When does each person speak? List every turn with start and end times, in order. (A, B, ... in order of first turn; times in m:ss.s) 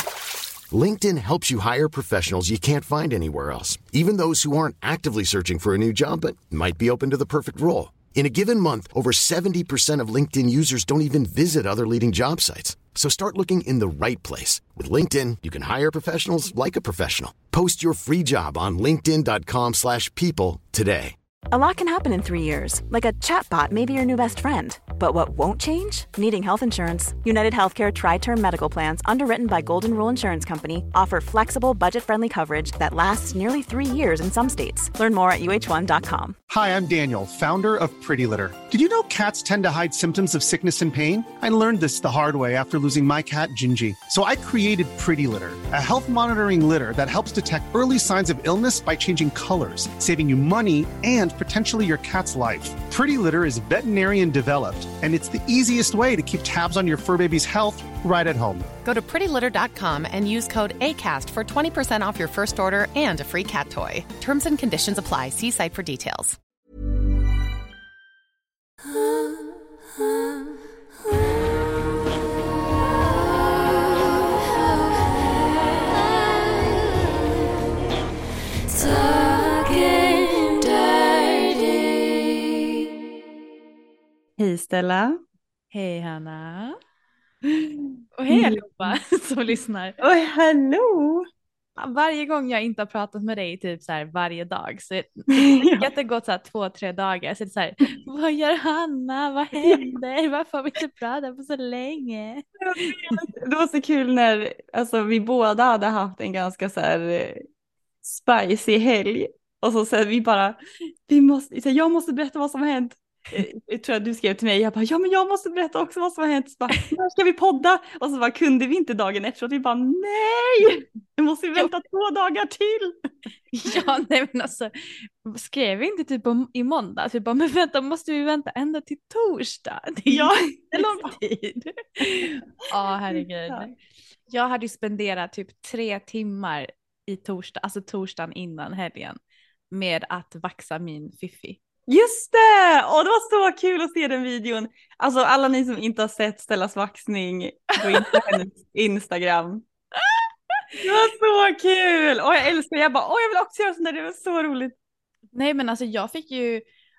0:00.7-0:21.1 A
0:21.5-0:36.4 B
0:36.5-0:58.7 C
0:58.8-1:06.4 D
1:18.7-1:22.0 E
1:24.4-1:25.2 F
1:25.7-1:26.8 E
1:27.5-1:29.0 F
1:28.2-1:30.0 E
1:30.0-1:31.3 F
1:31.8-1:43.2 E
1:35.3-1:35.9 F
1:39.6-1:39.9 F
1:42.6-1:47.4 F
1:48.0-2:03.0 F
2:03.5-2:13.8 E
2:10.1-2:11.1 F
2:13.1-2:13.7 F
2:14.3-2:19.2 E
2:19.7-2:21.6 E
2:21.9-2:29.6 F
2:27.8-2:28.3 E
2:30.0-2:30.7 E
2:30.8-2:34.8 F
2:35.3-2:36.6 E